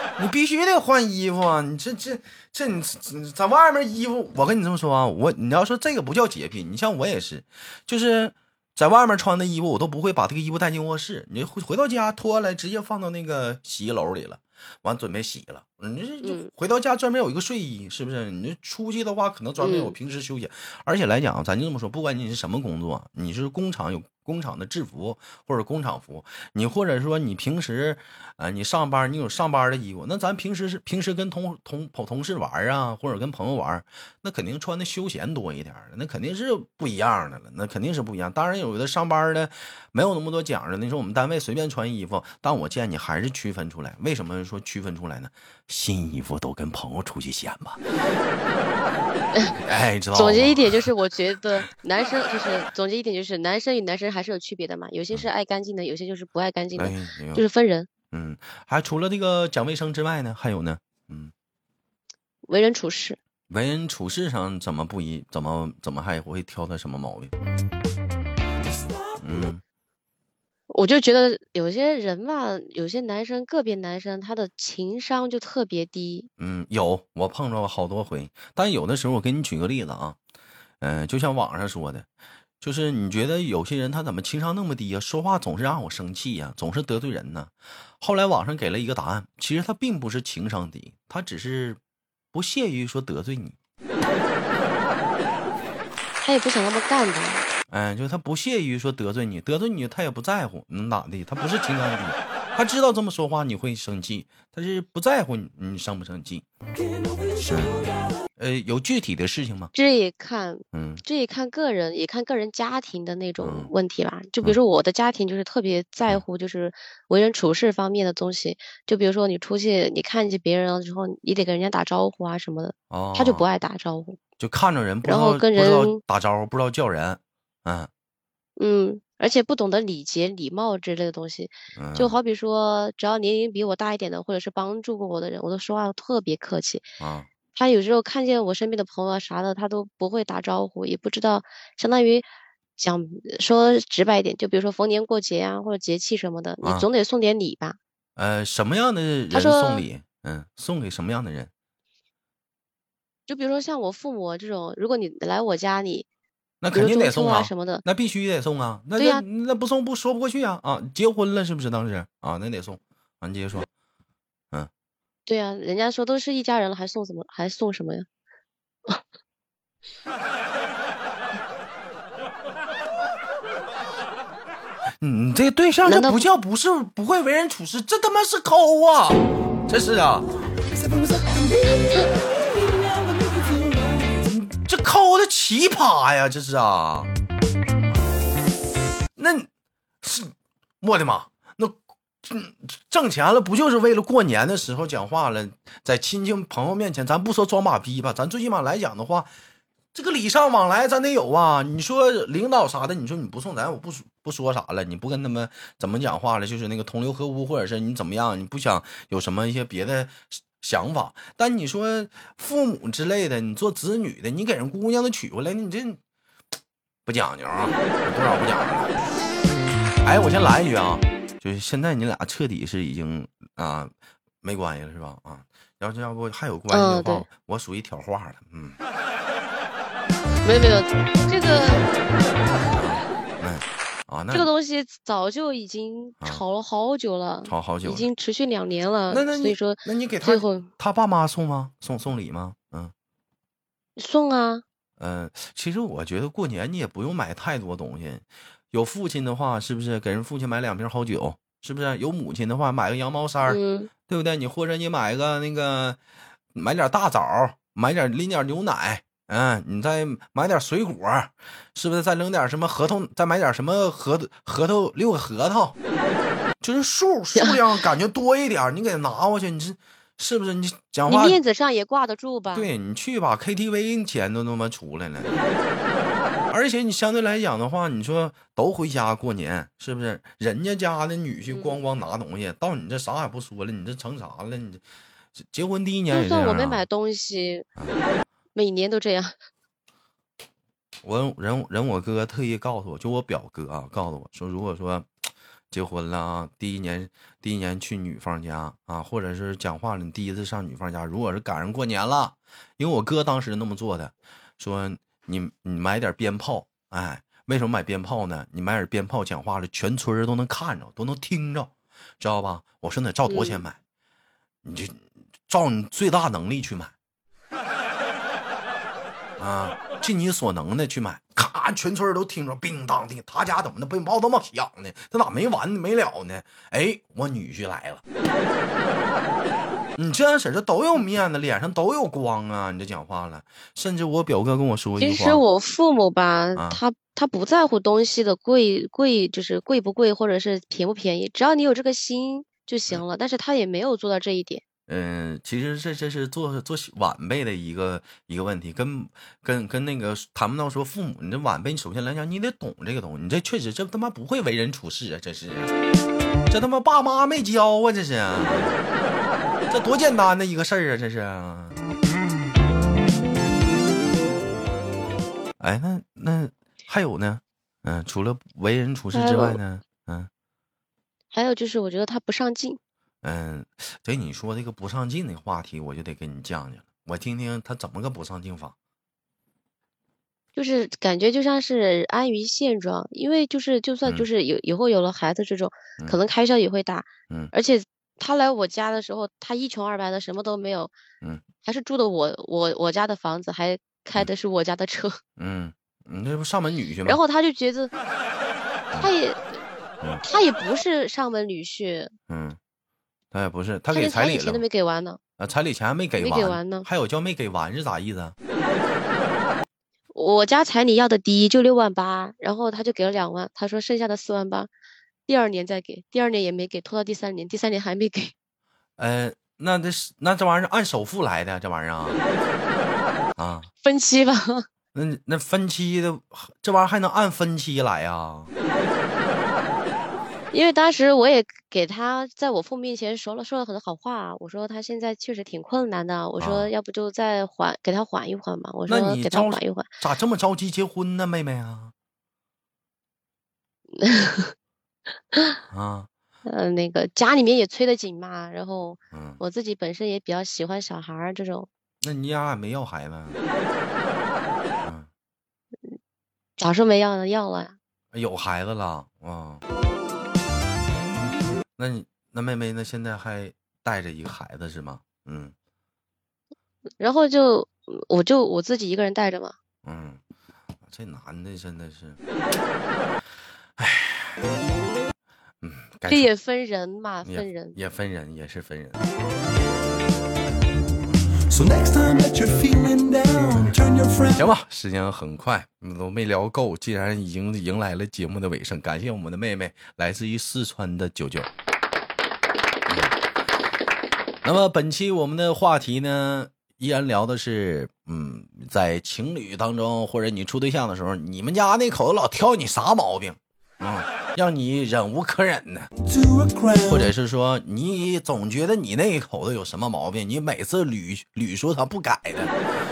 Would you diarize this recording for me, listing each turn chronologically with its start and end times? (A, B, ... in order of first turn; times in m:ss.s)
0:00.2-0:47.8 A
0:16.2-0:16.5 B
0:19.6-0:19.9 B
0:49.4-0:50.9 A
0:50.1-0:57.9 B
0:56.8-0:57.4 A
0:58.1-1:01.3 A
1:02.5-1:03.2 B
1:03.5-1:07.3 A
1:09.2-1:09.6 A
1:10.7-1:16.3 B
1:16.4-1:20.2 A
1:20.8-1:22.1 A
1:22.6-1:31.8 A
1:32.3-1:33.6 A
1:36.2-1:37.4 B
1:37.7-1:46.4 A
1:46.8-1:48.2 C
1:48.4-1:49.7 A
1:49.8-2:04.2 B
1:50.7-1:51.0 A
1:53.4-1:53.7 A
2:02.9-2:03.5 A
2:04.4-2:07.9 A
2:05.0-2:06.0 B
2:08.6-2:16.9 B
2:11.8-2:12.2 A
2:17.0-2:17.3 A
2:17.5-2:27.8 B
2:26.6-2:26.9 A
2:28.2-2:31.5 A
2:29.3-2:29.8 B
2:33.3-2:36.1 B
2:36.6-2:43.7 A
2:36.7-2:37.8 B
2:39.0-2:39.2 B
2:45.2-2:48.1 B
2:55.0-3:00.3 A
2:55.9-2:56.2 B
3:00.6-3:04.2 C
3:04.2-3:07.1 A
3:09.2-3:09.5 A
3:10.0-3:19.3 A
3:19.9-3:36.0 A
3:37.0-3:38.9 A
3:40.0-3:48.8 A
3:46.7-3:47.3 B
3:50.4-3:51.9 B
3:52.8-3:54.5 A
3:54.3-4:00.7 B
3:57.5-3:58.1 A
3:59.1-4:02.9 A
4:04.0-4:04.6 B
4:05.0-4:16.0 A
4:13.4-4:13.9 B
4:16.5-4:25.8 A
4:26.6-4:31.4 A
4:31.1-4:32.7 B
4:32.5-4:35.4 A
4:36.5-4:44.8 A
4:41.5-4:41.8 B
4:45.3-4:46.8 A
4:46.1-4:47.7 B
4:48.5-4:49.3 B
4:51.0-4:55.1 A
4:55.7-5:13.8 A
5:13.3-5:13.6 B
5:14.6-5:16.9 A
5:19.4-5:28.0 A
5:30.0-5:35.4 A
5:35.0-5:44.6 B
5:36.6-5:36.8 A
5:44.9-5:55.7 A
5:56.5-5:58.8 A
5:59.7-6:01.8 A
6:05.6-6:10.3 A
6:09.1-6:09.6 B
6:11.3-6:12.8 B
6:13.2-6:18.8 A
6:20.6-6:30.9 B
6:31.6-6:35.2 B
6:35.4-6:37.2 A
6:37.0-6:37.9 B
6:39.0-6:39.6 B
6:40.2-6:42.1 B
6:42.3-6:42.6 A
6:43.3-6:44.6 A
6:43.9-6:45.2 B
6:45.4-6:48.3 A
6:46.2-6:46.9 B
6:50.1-6:54.7 B
6:55.3-6:58.3 B
6:59.0-7:02.2 A
7:03.4-7:03.7 A
7:03.8-7:04.6 B
7:04.9-7:08.5 A
7:10.5-7:19.9 B
7:16.4-7:16.7 A
7:18.9-7:21.9 A
7:24.0-7:24.5 B
7:25.3-7:25.6 B
7:25.7-7:26.1 A
7:26.5-7:31.7 B
7:29.1-7:29.4 A
7:32.0-7:33.4 A
7:34.8-7:35.1 A
7:36.6-7:37.8 B
7:38.1-7:39.6 A
7:41.8-7:45.5 A
7:47.0-7:49.6 B
7:49.8-7:50.2 A
7:50.8-7:52.2 A
7:53.8-7:54.5 A
7:55.6-7:56.3 A
7:56.1-7:57.8 B
7:57.2-7:59.0 A
8:01.5-8:04.5 C
8:04.4-8:11.5 A
8:12.9-8:13.1 A
8:14.4-8:25.9 A
8:26.0-8:27.1 C
8:26.8-8:32.5 A